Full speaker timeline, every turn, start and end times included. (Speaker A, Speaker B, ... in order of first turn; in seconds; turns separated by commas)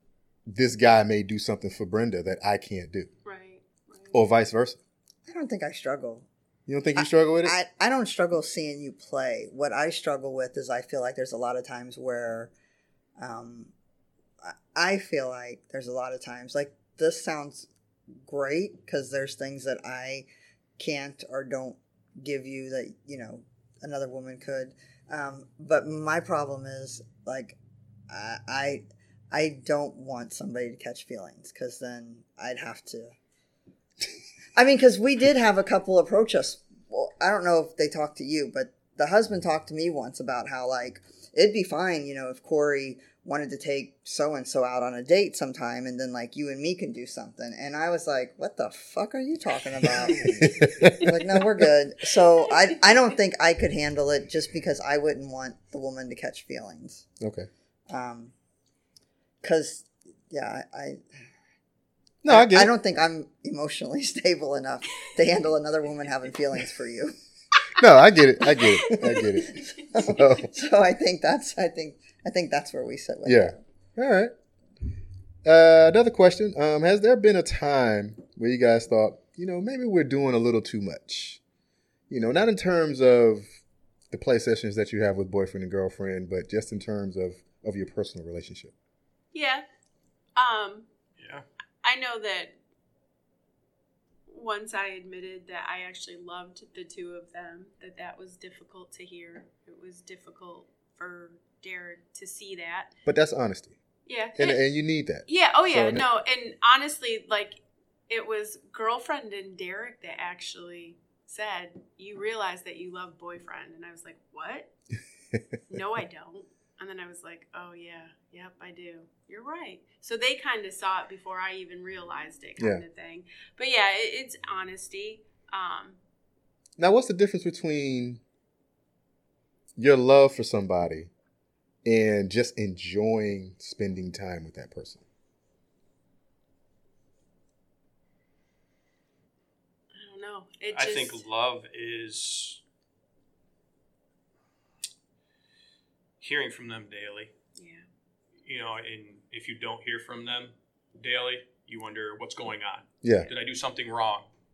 Speaker A: 0.5-3.1, Speaker B: 3.2-4.2, Speaker A: 4.1-4.8, Speaker C: 5.3-6.3, Speaker A: 6.7-7.5, Speaker C: 7.0-12.5, Speaker C: 13.2-13.7, Speaker C: 14.4-17.7, Speaker C: 18.2-20.2, Speaker C: 20.8-27.6, Speaker C: 28.1-33.1, Speaker C: 34.5-57.1, Speaker A: 50.2-51.1, Speaker A: 57.2-57.5, Speaker C: 57.9-58.3, Speaker C: 59.4-61.0, Speaker A: 62.2-62.7, Speaker C: 62.3-67.2, Speaker A: 67.7-70.5, Speaker B: 68.4-69.8, Speaker C: 69.9-73.6, Speaker A: 73.2-74.3, Speaker A: 75.4-81.4, Speaker A: 82.1-83.5, Speaker A: 84.1-88.7, Speaker B: 89.3-89.6, Speaker B: 90.3-90.9, Speaker D: 91.2-91.4, Speaker B: 91.8-92.5, Speaker B: 94.3-102.9, Speaker A: 103.0-103.8, Speaker B: 104.0-104.6, Speaker A: 104.3-106.0, Speaker B: 105.2-114.7, Speaker B: 115.7-126.0, Speaker A: 122.6-122.8, Speaker A: 126.8-128.2, Speaker A: 129.8-131.1, Speaker A: 131.8-135.0, Speaker B: 139.9-141.2, Speaker D: 140.7-142.6, Speaker D: 146.2-147.3, Speaker B: 147.5-147.8, Speaker D: 148.4-154.3, Speaker A: 153.0-153.3